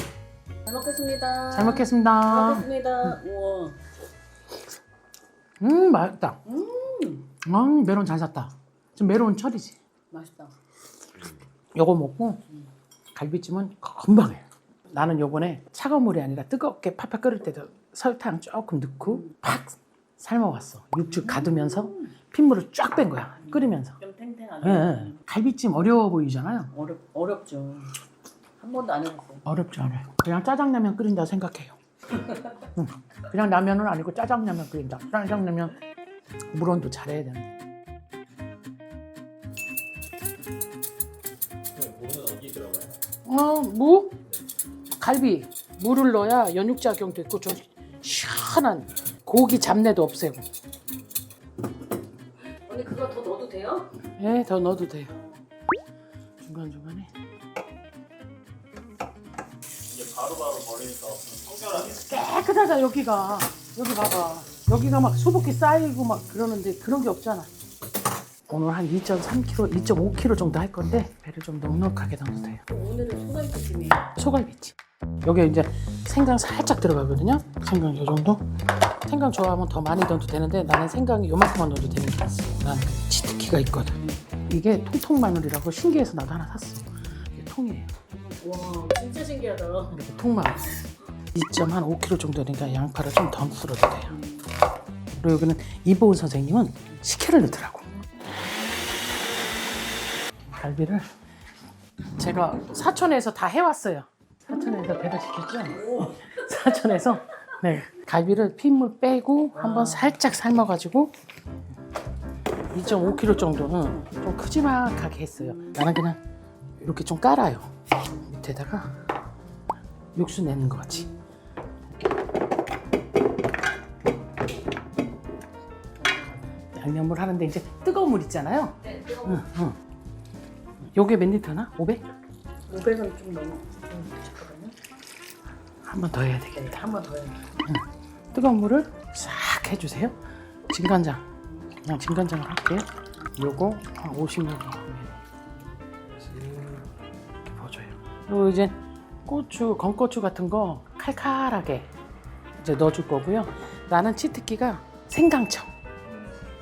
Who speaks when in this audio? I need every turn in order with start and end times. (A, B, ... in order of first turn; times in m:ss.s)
0:00.7-0:03.8 A
0:01.5-0:03.1 B
0:05.6-0:06.4 B
0:06.4-0:07.3 A
0:07.4-0:09.8 B
0:10.1-0:10.5 A
0:11.7-0:12.4 B
0:13.1-0:24.0 B
0:19.0-0:19.4 A
0:21.0-0:22.1 A
0:23.4-0:25.2 A
0:24.6-0:26.7 B
0:26.7-0:28.0 A
0:28.6-0:29.4 A
0:29.5-0:31.8 B
0:32.1-0:32.6 A
0:32.8-0:35.7 B
0:36.5-0:37.5 B
0:41.7-0:43.0 C
0:43.2-0:44.2 B
0:45.0-0:50.4 B
0:52.5-0:54.0 A
0:54.2-0:55.1 B
0:56.4-0:57.1 B
0:59.9-1:02.0 C
1:01.8-1:07.5 B
1:08.5-1:12.6 B
1:12.7-1:14.1 A
1:14.2-1:24.0 B
1:24.5-1:27.9 B
1:28.1-1:30.0 A
1:29.9-1:30.8 B
1:31.3-1:34.1 B
1:34.1-1:34.5 A
1:35.1-1:37.9 B
1:40.5-1:41.1 B
1:42.2-1:51.1 B
1:45.7-1:47.1 A
1:49.6-1:50.2 A
1:52.7-1:56.2 B
1:52.7-1:53.9 A
1:55.4-1:55.8 A
1:56.8-1:58.9 B
2:00.1-2:01.1 B
2:06.0-2:06.5 A
2:06.7-2:09.8 B
2:08.8-2:09.4 A
2:10.8-2:12.0 B
2:12.7-2:14.8 A
2:15.8-2:16.8 B
2:16.5-2:17.4 A
2:17.6-2:21.3 B
2:21.5-2:21.7 A
2:21.8-2:25.2 B
2:26.2-2:26.8 C
2:27.4-2:31.9 B
2:32.6-2:35.7 B